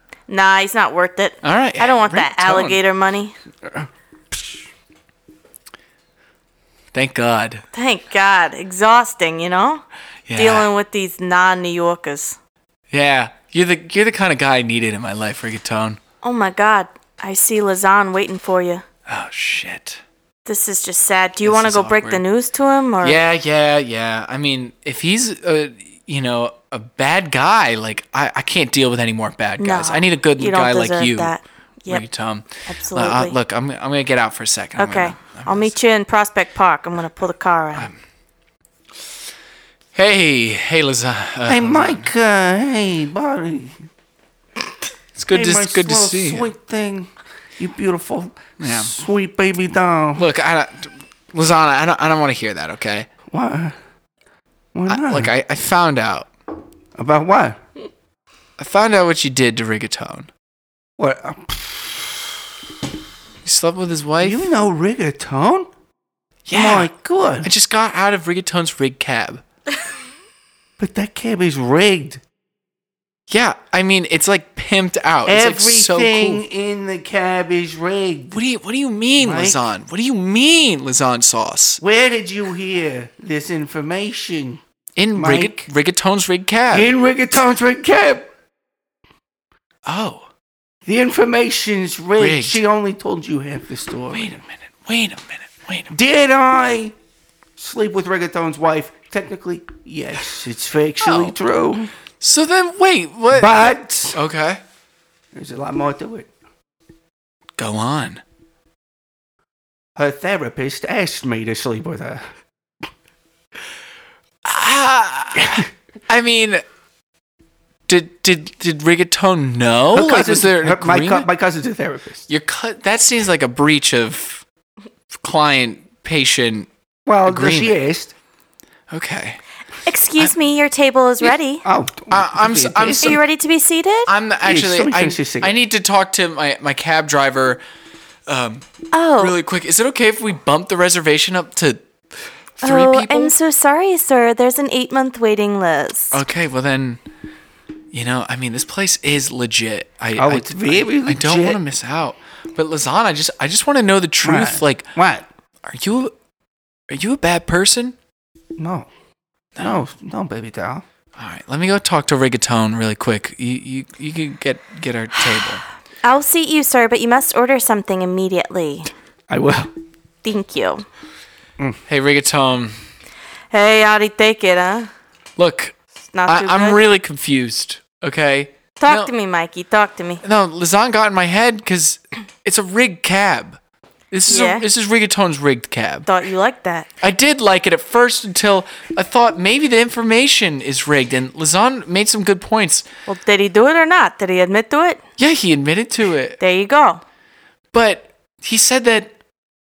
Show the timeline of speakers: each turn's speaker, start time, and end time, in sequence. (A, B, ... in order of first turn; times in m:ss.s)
0:00.3-0:03.4 A
0:01.4-0:02.8 B
0:03.6-0:04.6 C
0:06.9-0:07.6 B
0:07.7-0:09.8 A
0:10.3-0:10.7 B
0:10.4-0:12.4 A
0:12.9-0:16.0 B
0:16.2-0:18.8 A
0:19.1-0:20.0 B
0:20.4-0:23.2 A
0:21.4-0:22.2 B
0:23.0-0:31.3 B
0:29.6-0:32.0 A
0:31.9-0:35.7 B
0:32.7-0:33.4 A
0:34.8-0:37.9 A
0:40.0-0:42.1 B
0:41.5-0:43.8 C
0:45.2-0:46.5 B
0:45.3-0:50.3 C
0:48.6-0:48.9 B
0:50.2-0:53.1 B
0:53.3-0:53.8 C
0:54.7-0:55.3 C
0:54.9-0:56.3 B
0:57.0-0:57.6 C
0:58.6-1:00.3 B
1:01.0-1:02.4 C
1:03.4-1:04.5 B
1:04.2-1:05.7 C
1:06.5-1:06.9 B
1:06.5-1:07.5 C
1:07.4-1:09.4 B
1:10.8-1:12.2 C
1:13.3-1:16.4 B
1:15.3-1:18.4 C
1:18.3-1:21.8 B
1:19.2-1:19.6 C
1:21.8-1:24.6 C
1:25.0-1:26.9 B
1:25.2-1:25.7 C
1:26.7-1:28.3 C
1:29.9-1:30.3 B
1:30.9-1:34.4 C
1:32.2-1:32.6 B
1:34.1-1:35.9 B
1:35.9-1:37.0 C
1:37.6-1:41.9 C
1:41.0-1:41.3 B
1:42.2-1:44.6 B
1:43.3-1:44.2 C
1:45.3-1:46.3 C
1:47.6-1:48.2 B
1:50.0-1:52.2 C
1:54.4-1:56.6 B
1:57.9-2:01.3 B
1:59.9-2:02.3 C
2:02.3-2:04.4 B
2:05.2-2:06.7 B
2:07.1-2:08.1 C
2:07.3-2:07.8 B
2:08.9-2:09.4 B
2:09.9-2:11.6 A
2:11.6-2:13.2 C
2:12.1-2:13.2 B
2:13.0-2:14.1 A
2:14.1-2:17.6 B
2:14.4-2:15.6 C
2:18.3-2:18.6 B
2:18.9-2:19.4 A
2:19.2-2:21.8 B
2:22.6-2:23.3 B
2:22.6-2:26.2 A
2:26.1-2:27.0 B
2:27.9-2:34.9 B
2:30.2-2:31.6 C
2:34.2-2:35.3 C
2:35.6-2:36.1 B
2:36.9-2:38.0 B
2:38.6-2:38.9 C
2:39.6-2:40.8 C
2:41.2-2:45.6 B
2:46.0-2:48.9 A
2:49.3-2:49.7 C
2:50.2-2:50.8 A
2:51.9-2:52.8 B
2:53.5-2:54.9 A
2:55.4-2:55.8 B
2:56.1-2:56.8 A
2:56.3-2:59.1 B
2:58.8-3:00.2 A
3:00.2-3:03.6 B
3:04.1-3:06.1 B
3:04.3-3:04.6 A
3:06.1-3:06.9 A
3:07.0-3:12.9 B
3:13.1-3:15.0 A
3:15.2-3:16.4 B
3:16.4-3:17.0 A
3:17.7-3:19.1 B